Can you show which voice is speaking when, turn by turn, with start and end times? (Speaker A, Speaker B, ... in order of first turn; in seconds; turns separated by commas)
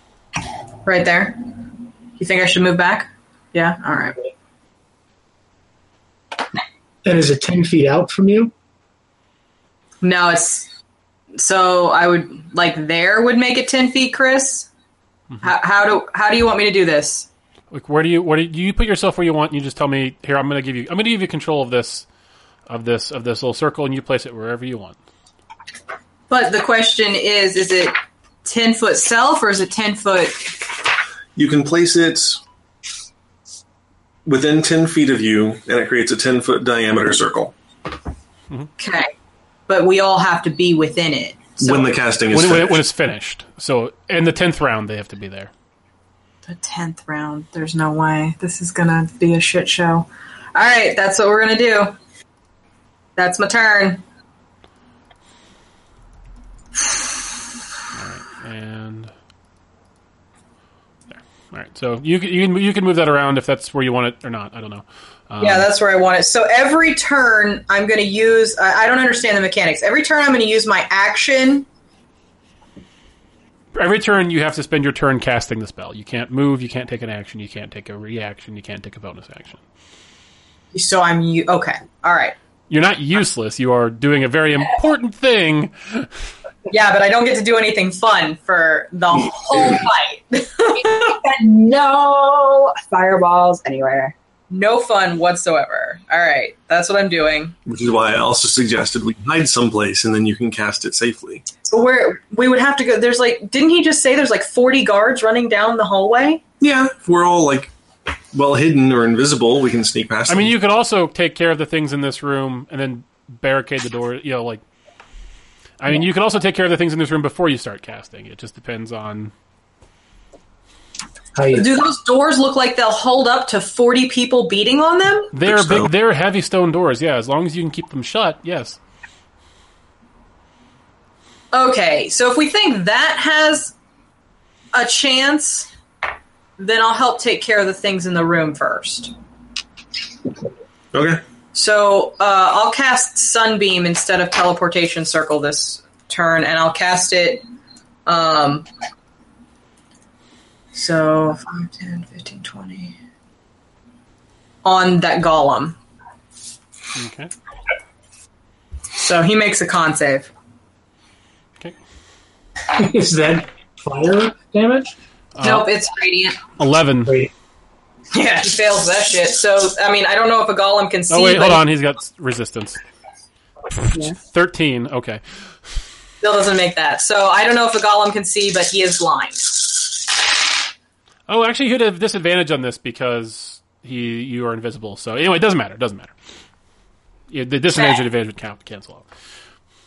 Speaker A: 0.8-1.4, Speaker A: 2.2-4.2, Speaker B: 7.0-8.5, Speaker A: 10.0-10.7, Speaker A: 11.3-14.7, Speaker A: 15.4-17.3, Speaker C: 17.7-22.1, Speaker C: 22.7-25.0, Speaker A: 26.3-30.6, Speaker D: 31.4-32.4, Speaker D: 34.3-37.5, Speaker A: 38.8-39.1, Speaker A: 39.7-41.9, Speaker D: 41.6-42.8, Speaker C: 42.3-45.5, Speaker A: 46.5-52.0, Speaker A: 53.2-54.0, Speaker C: 58.0-59.1, Speaker C: 61.1-65.7, Speaker A: 65.4-71.7, Speaker C: 73.8-79.6, Speaker A: 80.7-82.3, Speaker C: 82.7-86.1, Speaker A: 86.7-91.1, Speaker E: 90.7-94.1, Speaker A: 94.5-97.5, Speaker D: 97.7-101.5, Speaker A: 101.7-106.4, Speaker D: 106.6-107.7, Speaker D: 108.3-110.6, Speaker C: 110.3-114.6, Speaker C: 115.8-119.3, Speaker B: 121.4-121.7, Speaker A: 121.5-125.3, Speaker C: 125.3-128.8, Speaker D: 125.5-125.9, Speaker A: 131.5-133.7, Speaker A: 134.7-135.7, Speaker A: 136.6-139.1, Speaker D: 140.9-141.2, Speaker A: 141.5-147.4, Speaker A: 148.1-148.7, Speaker A: 150.7-153.0, Speaker A: 154.6-155.8, Speaker C: 157.0-157.3, Speaker A: 158.9-160.3, Speaker B: 162.7-164.9, Speaker C: 165.4-165.7, Speaker A: 165.4-166.4, Speaker C: 166.6-167.2, Speaker B: 167.1-167.3, Speaker A: 168.1-171.6, Speaker C: 171.1-172.8, Speaker C: 173.9-175.2, Speaker A: 176.2-179.6, Speaker C: 181.3-186.1, Speaker C: 187.3-189.1, Speaker A: 187.8-188.0